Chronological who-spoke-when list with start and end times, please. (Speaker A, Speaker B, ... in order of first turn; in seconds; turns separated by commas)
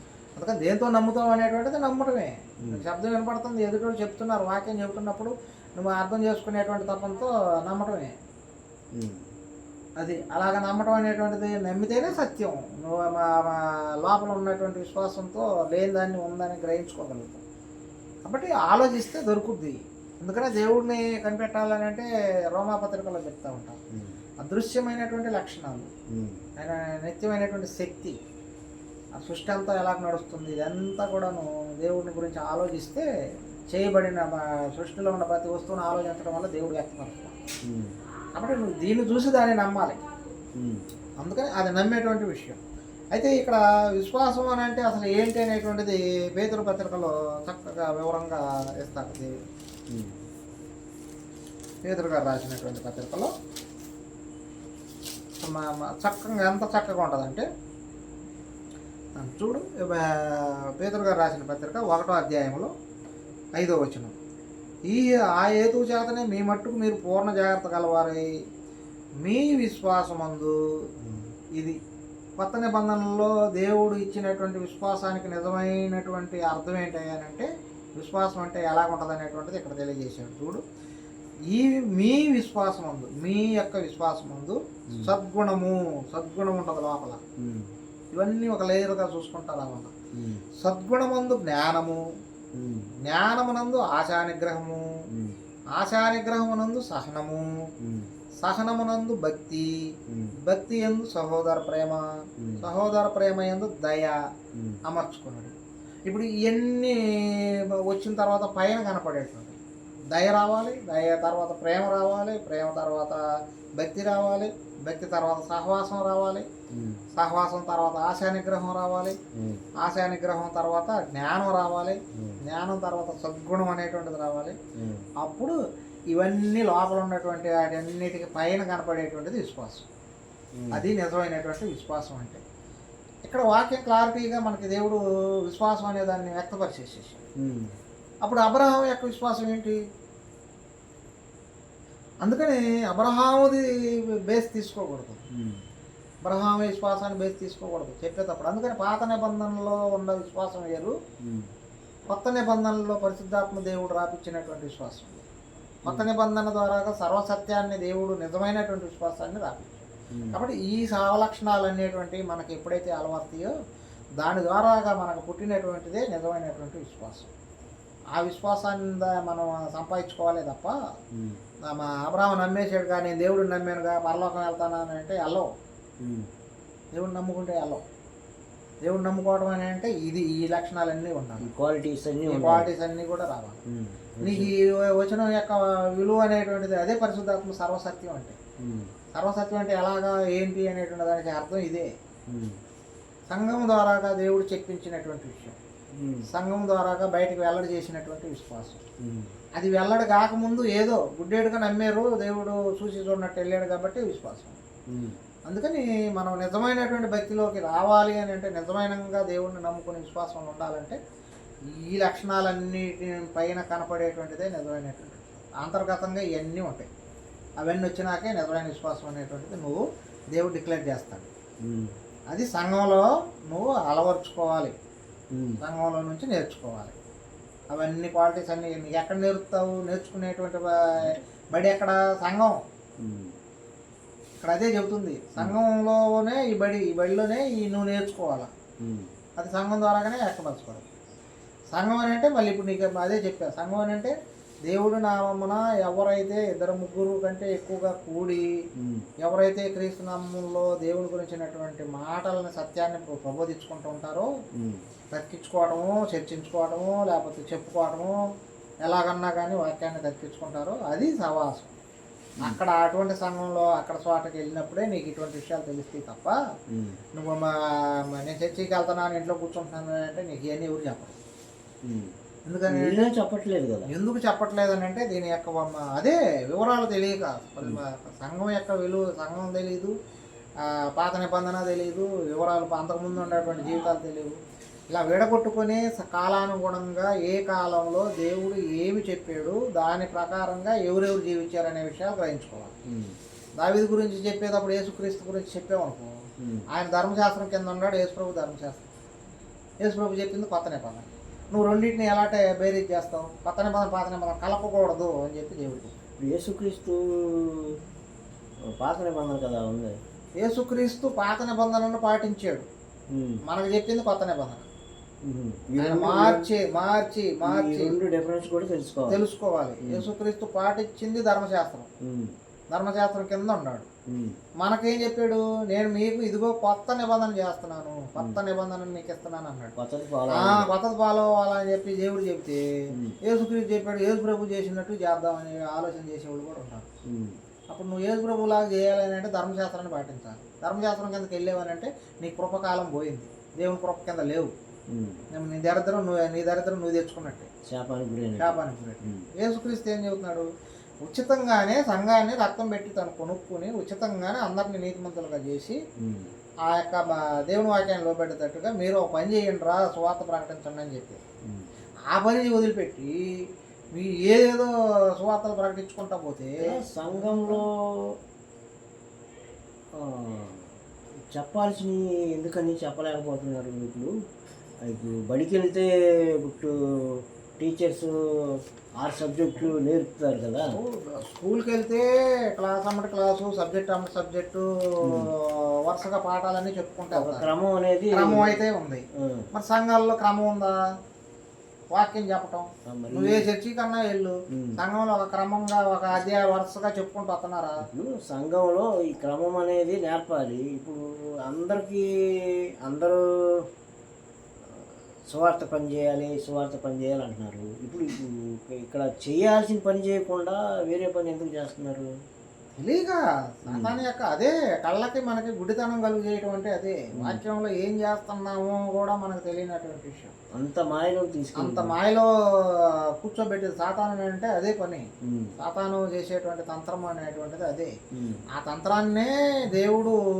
Speaker A: 0.4-8.1, Speaker B: 8.9-9.2, Speaker A: 10.0-17.4, Speaker A: 18.2-23.8, Speaker A: 24.4-25.9, Speaker B: 26.1-26.4, Speaker A: 26.6-28.2, Speaker A: 29.1-33.0, Speaker A: 33.7-37.4, Speaker B: 37.6-38.0, Speaker A: 38.4-40.0, Speaker B: 40.5-40.8, Speaker A: 41.2-42.6, Speaker A: 43.1-49.3, Speaker B: 49.9-50.1, Speaker A: 51.8-53.3, Speaker A: 55.4-57.5, Speaker A: 59.2-62.7, Speaker A: 63.5-64.1, Speaker A: 64.9-68.3, Speaker A: 69.2-70.5, Speaker B: 71.0-71.3, Speaker A: 72.4-80.6, Speaker A: 81.5-87.2, Speaker B: 84.9-85.2, Speaker B: 87.4-87.7, Speaker A: 88.1-89.9, Speaker B: 90.1-90.5, Speaker A: 90.6-92.0, Speaker B: 92.5-92.9, Speaker A: 93.0-94.9, Speaker B: 95.1-95.4, Speaker A: 95.8-97.5, Speaker B: 97.8-98.1, Speaker A: 98.4-99.7, Speaker A: 100.4-102.0, Speaker B: 102.4-102.7, Speaker A: 102.6-104.2, Speaker B: 104.5-104.8, Speaker A: 104.8-105.5, Speaker A: 106.1-109.6, Speaker A: 110.1-113.2, Speaker A: 113.8-116.5, Speaker B: 116.7-117.0, Speaker A: 117.1-119.2, Speaker B: 119.3-119.6, Speaker A: 119.8-124.5, Speaker B: 122.2-122.4, Speaker B: 124.8-125.1, Speaker A: 125.2-125.5, Speaker A: 126.1-129.8, Speaker B: 130.5-130.9, Speaker A: 130.7-132.4, Speaker A: 133.2-137.2, Speaker B: 137.4-137.7, Speaker A: 138.2-139.8, Speaker A: 142.2-145.2, Speaker B: 145.3-145.6, Speaker A: 146.2-150.9, Speaker B: 151.2-151.5, Speaker A: 152.1-155.2, Speaker A: 155.8-163.5, Speaker B: 160.1-160.4, Speaker A: 164.2-167.3, Speaker A: 168.2-170.7, Speaker B: 171.1-171.4, Speaker A: 171.7-175.5, Speaker B: 176.0-176.3, Speaker A: 176.9-177.8, Speaker A: 178.8-181.5, Speaker B: 181.4-182.7, Speaker A: 182.3-183.6, Speaker B: 183.7-184.5, Speaker A: 184.2-188.4, Speaker B: 188.6-188.9, Speaker A: 189.1-191.9, Speaker B: 192.3-192.6, Speaker A: 193.3-195.6, Speaker B: 195.9-196.2, Speaker A: 196.3-198.8, Speaker B: 199.0-199.3, Speaker A: 199.5-204.6, Speaker B: 204.9-205.2, Speaker A: 205.5-211.0, Speaker A: 211.7-216.9, Speaker A: 217.6-221.3, Speaker B: 221.6-221.9, Speaker A: 222.3-224.7, Speaker B: 225.3-225.6, Speaker A: 225.6-226.9, Speaker A: 227.7-232.6, Speaker B: 233.0-233.3, Speaker A: 234.4-238.5, Speaker B: 238.8-239.1, Speaker A: 239.4-240.8, Speaker A: 241.7-244.1, Speaker A: 244.7-248.6, Speaker B: 248.8-249.1, Speaker A: 249.2-254.3, Speaker B: 254.6-254.8, Speaker A: 255.1-258.2, Speaker A: 258.8-261.8, Speaker A: 262.4-266.4, Speaker B: 266.7-267.0, Speaker A: 267.1-271.2, Speaker B: 271.8-272.1, Speaker A: 272.5-273.1, Speaker B: 272.7-273.9, Speaker A: 273.9-279.9, Speaker A: 280.6-284.4, Speaker A: 284.9-292.7, Speaker B: 292.9-293.2, Speaker A: 293.6-296.1, Speaker B: 296.4-296.6, Speaker A: 296.7-298.9, Speaker A: 299.8-305.9, Speaker B: 306.2-307.8, Speaker B: 308.7-310.0, Speaker A: 310.4-312.7, Speaker B: 313.1-313.4, Speaker A: 313.4-314.7, Speaker B: 315.2-316.5, Speaker A: 315.8-318.0, Speaker B: 317.4-319.2, Speaker A: 319.1-321.9, Speaker B: 319.8-320.1, Speaker B: 322.0-322.4, Speaker A: 322.7-323.9, Speaker B: 324.1-324.4, Speaker A: 324.6-329.8, Speaker B: 329.8-330.7, Speaker A: 330.3-336.8, Speaker B: 337.0-337.4, Speaker A: 337.7-344.5, Speaker B: 344.9-345.2, Speaker A: 345.3-347.5, Speaker B: 347.6-349.3, Speaker A: 348.4-350.5, Speaker A: 351.0-355.8, Speaker B: 356.0-356.3, Speaker A: 356.7-361.2, Speaker B: 361.4-361.7, Speaker A: 362.1-363.2, Speaker A: 363.9-367.6, Speaker B: 366.6-368.1, Speaker B: 369.9-370.8, Speaker B: 371.3-374.1, Speaker B: 374.8-380.8, Speaker A: 380.6-387.5, Speaker B: 385.0-385.3, Speaker B: 387.1-388.6, Speaker A: 388.1-390.8, Speaker B: 389.1-389.5, Speaker A: 391.9-397.8, Speaker B: 392.8-393.5, Speaker B: 394.5-394.8, Speaker B: 397.8-403.6, Speaker B: 404.6-412.1, Speaker A: 412.8-420.3, Speaker B: 413.7-414.0, Speaker B: 417.1-417.4, Speaker B: 420.5-422.0, Speaker A: 421.6-425.1, Speaker B: 425.2-425.5, Speaker A: 425.6-427.9, Speaker B: 428.1-428.4, Speaker A: 428.5-430.2